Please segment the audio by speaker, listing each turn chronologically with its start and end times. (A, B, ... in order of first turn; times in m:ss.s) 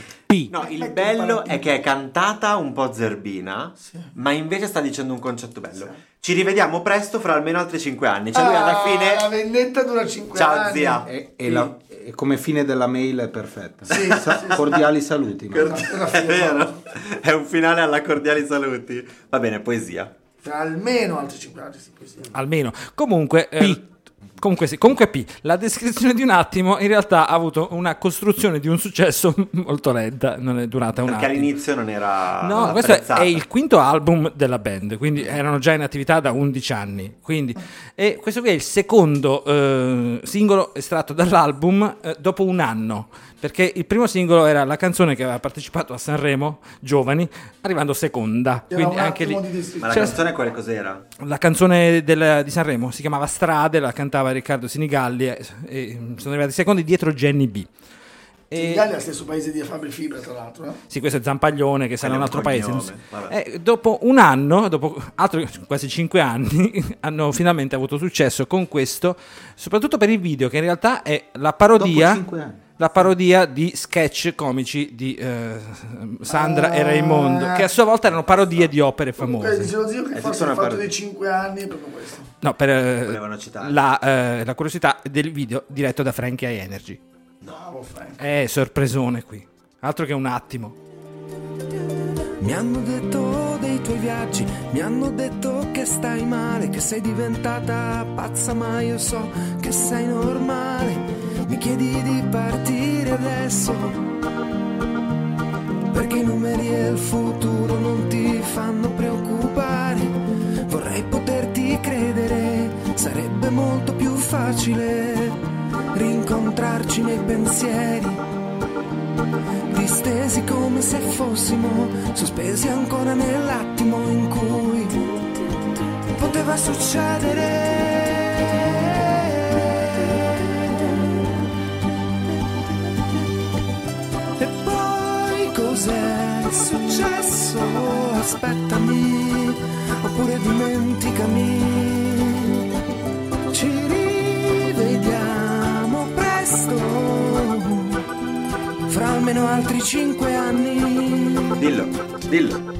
0:00.5-0:09.3 A
0:00.6-0:01.7 B
0:03.8-0:04.1 B
0:05.7-0:06.0 B
0:08.3-0:11.7 B
0:10.3-0:11.1 A
0:11.1-0:15.8 C
0:13.9-0:14.8 B
0:14.0-0:14.8 A
0:15.5-0:20.1 A
0:15.6-0:16.8 B
0:20.4-0:22.3 B
0:22.3-0:31.5 D
0:31.0-0:33.4 A
0:32.4-0:50.2 D
0:48.7-0:50.2 B
0:49.8-0:51.0 A
0:51.2-0:57.7 D
0:58.5-0:58.9 D
0:58.5-1:00.8 B
1:00.9-1:12.2 D
1:02.0-1:03.4 A
1:11.8-1:12.6 C
1:12.8-1:19.7 D
1:16.3-1:17.7 B
1:18.0-1:18.8 A
1:19.2-1:22.3 B
1:20.1-1:20.9 A
1:22.4-1:27.0 D
1:23.0-1:23.8 A
1:27.5-1:28.2 B
1:28.2-1:30.7 D
1:32.4-1:44.1 E
1:45.9-1:55.4 E
1:55.9-1:58.2 E
1:59.7-2:05.1 E
2:06.1-2:10.4 E
2:14.4-2:22.6 E
2:23.5-2:28.0 E
2:28.9-2:31.6 E
2:31.6-2:32.6 A